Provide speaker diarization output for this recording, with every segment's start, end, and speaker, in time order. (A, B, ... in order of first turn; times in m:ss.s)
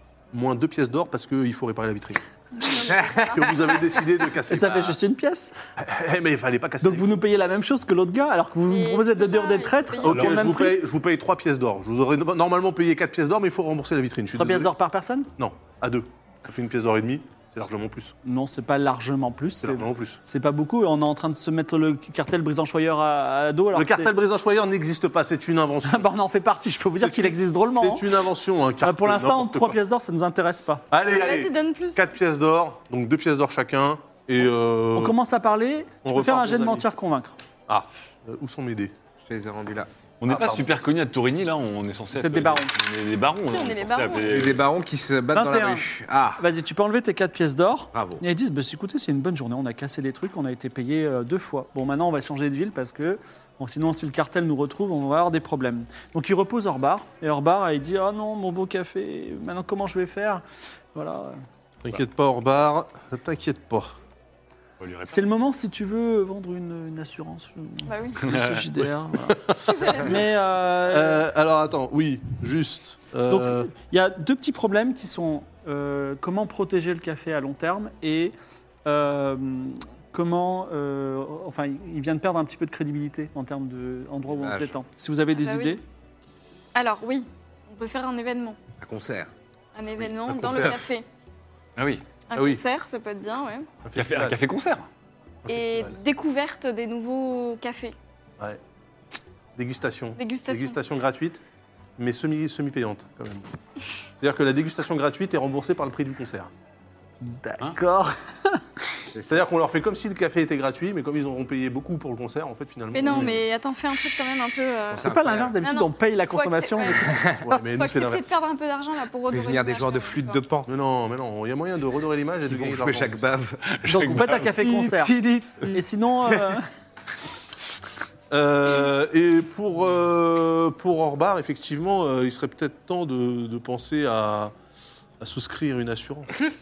0:00.3-0:05.0 A
0:02.6-0:03.6 B
0:02.8-0:03.6 C
0:04.5-0:05.5 D
0:05.8-0:07.1 A
0:06.8-0:10.8 D
0:08.7-0:10.6 B
0:10.0-0:14.7 A
0:14.3-0:15.3 D
0:15.4-0:18.2 A
0:18.2-0:24.1 D
0:19.6-0:20.2 A
0:23.7-0:26.1 A
0:25.8-0:28.1 D
0:27.0-0:29.8 A
0:28.8-0:30.9 D
0:30.9-0:35.2 A
0:31.1-0:32.1 B
0:35.0-0:37.4 D
0:36.0-0:36.9 A
0:37.7-0:38.9 A
0:39.2-0:39.9 C
0:40.2-0:44.6 E
0:40.3-0:40.8 A
0:42.2-0:42.7 D
0:43.4-0:44.5 B
0:44.3-0:46.4 C
0:45.3-0:45.8 D
0:46.4-1:00.4 D
0:47.9-0:48.2 C
1:01.0-1:01.4 D
1:01.8-1:04.0 A
1:04.8-1:05.3 E
1:05.1-1:11.3 D
1:07.8-1:08.3 B
1:08.3-1:08.6 E
1:09.3-1:10.2 A
1:09.7-1:10.1 B
1:10.9-1:13.7 A
1:13.3-1:25.8 D
1:24.4-1:24.8 C
1:25.4-1:25.8 B
1:26.8-1:28.6 B
1:28.8-1:29.3 C
1:29.8-1:31.1 B
1:30.2-1:30.9 A
1:31.8-1:32.0 E
1:32.3-1:33.7 B
1:32.3-1:32.6 A
1:33.8-1:34.4 A
1:34.0-1:34.9 E
1:35.4-1:36.0 A
1:35.5-1:38.0 B
1:39.6-1:41.4 A
1:40.2-1:40.8 B
1:42.0-1:43.5 A
1:44.2-1:46.5 A
1:47.2-1:48.6 D
1:49.1-1:49.5 C
1:49.3-1:53.5 A
1:52.9-2:00.4 B
1:54.9-1:55.6 C
1:55.0-1:57.6 D
1:57.0-1:57.4 C
1:57.5-1:58.3 A
1:59.3-2:00.7 C
2:00.7-2:03.2 A
2:02.5-2:03.6 C
2:03.8-2:04.5 E
2:03.9-2:06.6 D
2:04.1-2:05.8 C
2:08.3-2:14.5 A
2:15.2-2:16.4 A